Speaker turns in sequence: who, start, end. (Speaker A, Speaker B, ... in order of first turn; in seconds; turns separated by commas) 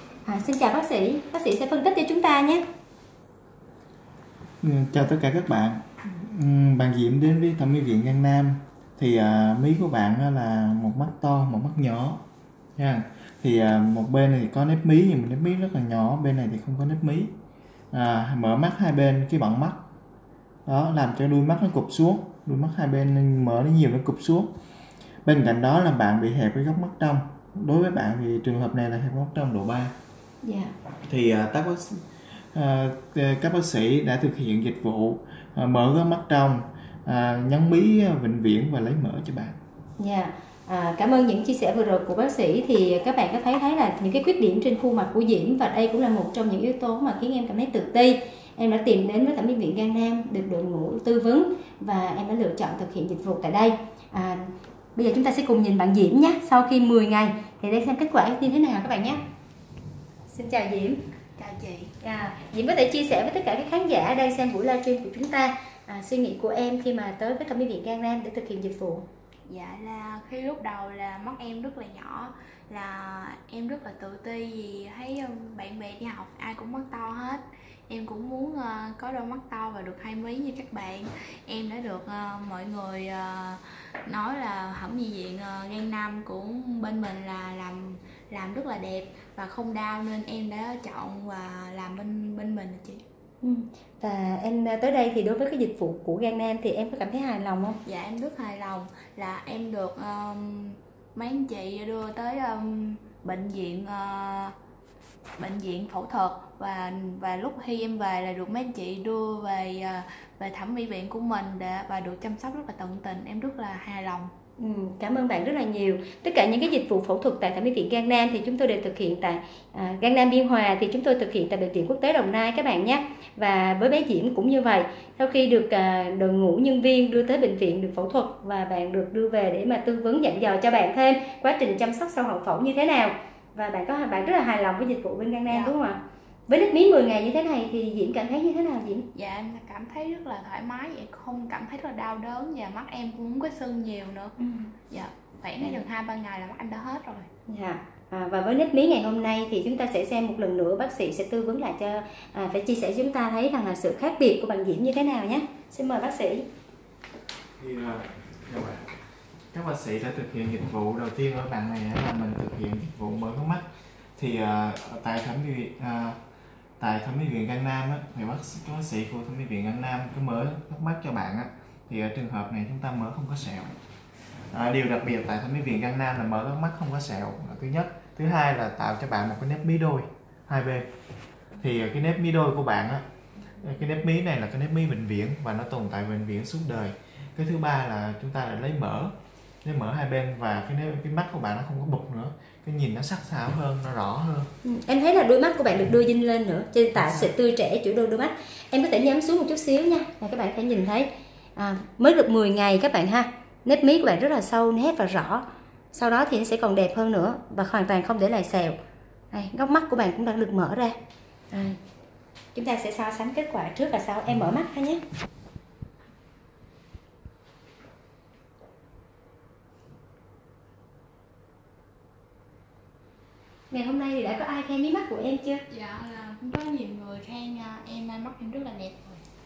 Speaker A: 0.3-2.6, Speaker B: 4.6-12.2, Speaker B: 12.8-17.3, Speaker B: 17.9-19.9, Speaker B: 20.7-24.5, Speaker B: 25.2-29.9, Speaker A: 30.4-30.7, Speaker B: 31.1-32.0, Speaker B: 32.5-39.6, Speaker A: 40.0-59.2, Speaker A: 60.3-61.0, Speaker C: 61.4-61.9, Speaker A: 62.0-69.1, Speaker C: 69.5-93.0, Speaker A: 93.4-97.8, Speaker C: 97.8-104.5, Speaker C: 105.4-114.3, Speaker A: 114.6-139.1, Speaker C: 135.5-135.7, Speaker C: 139.2-144.3, Speaker A: 144.4-144.7, Speaker C: 144.9-147.3, Speaker A: 147.5-156.5, Speaker B: 157.6-158.9, Speaker B: 159.5-163.7, Speaker B: 164.2-166.2, Speaker B: 166.8-173.8, Speaker B: 174.5-180.9, Speaker B: 181.6-183.0, Speaker B: 183.6-194.5, Speaker A: 194.6-208.8, Speaker B: 197.0-197.3, Speaker A: 209.3-211.0, Speaker A: 211.5-211.8, Speaker A: 212.5-215.0, Speaker A: 223.7-225.6, Speaker C: 225.7-229.2